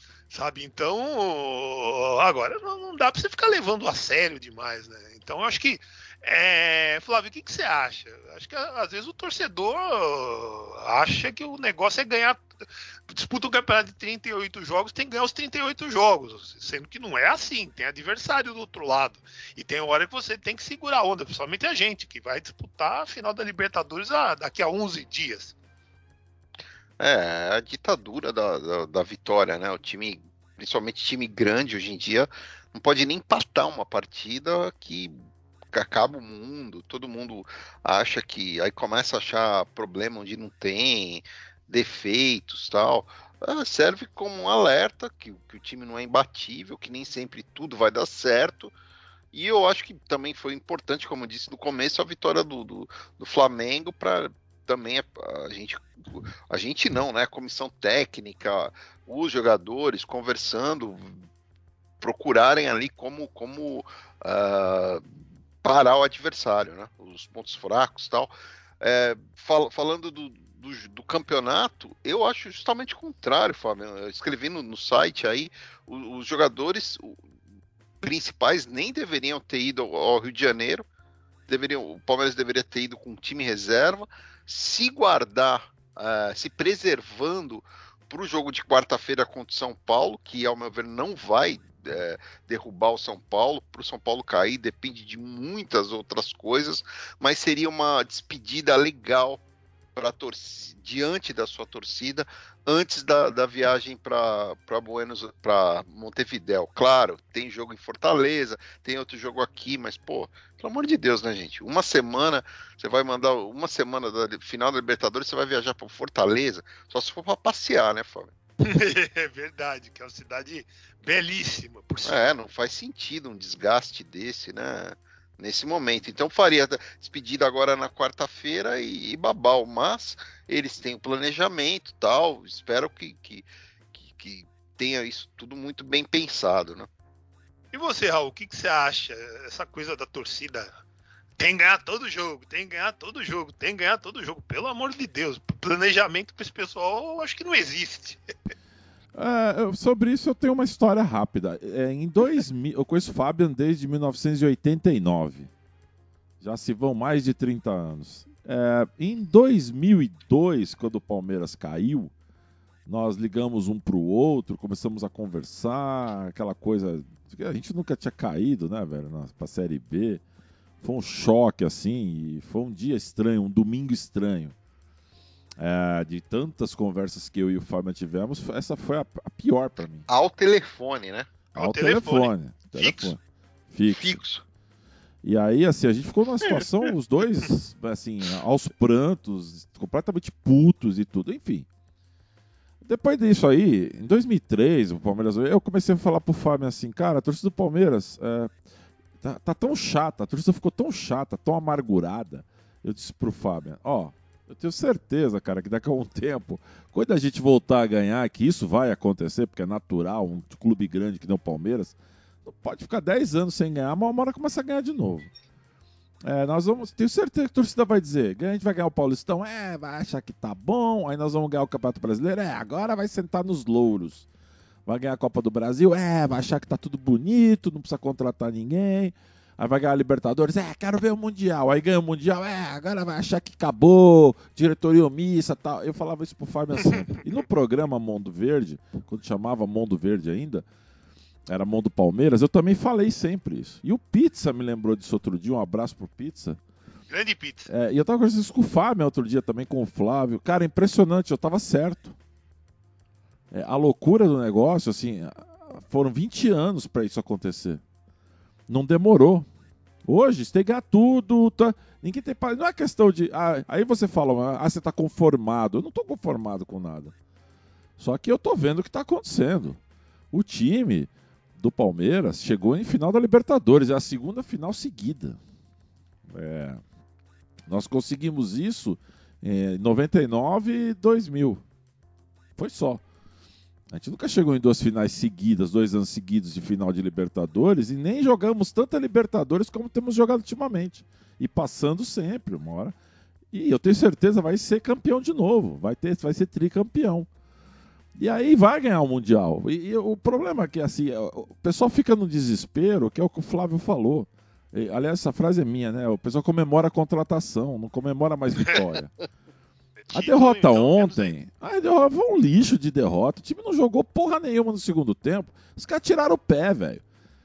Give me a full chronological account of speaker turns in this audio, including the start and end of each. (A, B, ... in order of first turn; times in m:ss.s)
0:00.3-0:12.5 A
0:13.1-0:25.6 A
0:27.0-0:35.1 B
0:35.7-0:48.8 B
0:49.3-1:01.2 B
1:02.0-1:05.1 B
1:05.6-1:17.2 B
1:18.0-1:20.9 B
1:21.5-1:39.4 B
1:40.0-1:58.3 B
1:58.6-2:02.3 A
2:02.0-2:16.9 B
2:17.7-2:20.7 A
2:21.4-2:28.2 A
2:29.1-2:35.5 C
2:36.4-2:42.1 C
2:42.9-2:50.2 C
2:50.8-2:54.6 C
2:55.6-3:00.0 C
3:00.1-3:01.3 B
3:01.6-3:03.1 A
3:01.6-3:03.2 C
3:03.7-3:04.2 C
3:03.9-3:04.4 B
3:05.2-3:11.7 C
3:12.8-3:18.5 C
3:19.2-3:35.3 C
3:36.2-3:44.3 C
3:44.9-4:00.7 C
4:01.5-4:06.6 C
4:07.1-4:07.7 A
4:07.7-4:12.2 C
4:13.5-4:17.8 C
4:18.7-4:19.5 C
4:20.0-4:27.1 C
4:28.0-4:29.8 C
4:30.3-4:35.4 C
4:36.3-4:36.8 C
4:37.7-4:41.6 C
4:42.6-4:43.0 C
4:43.9-4:53.0 C
4:53.5-4:57.3 C
4:58.2-5:09.1 C
5:10.0-5:11.4 A
5:10.1-5:17.0 C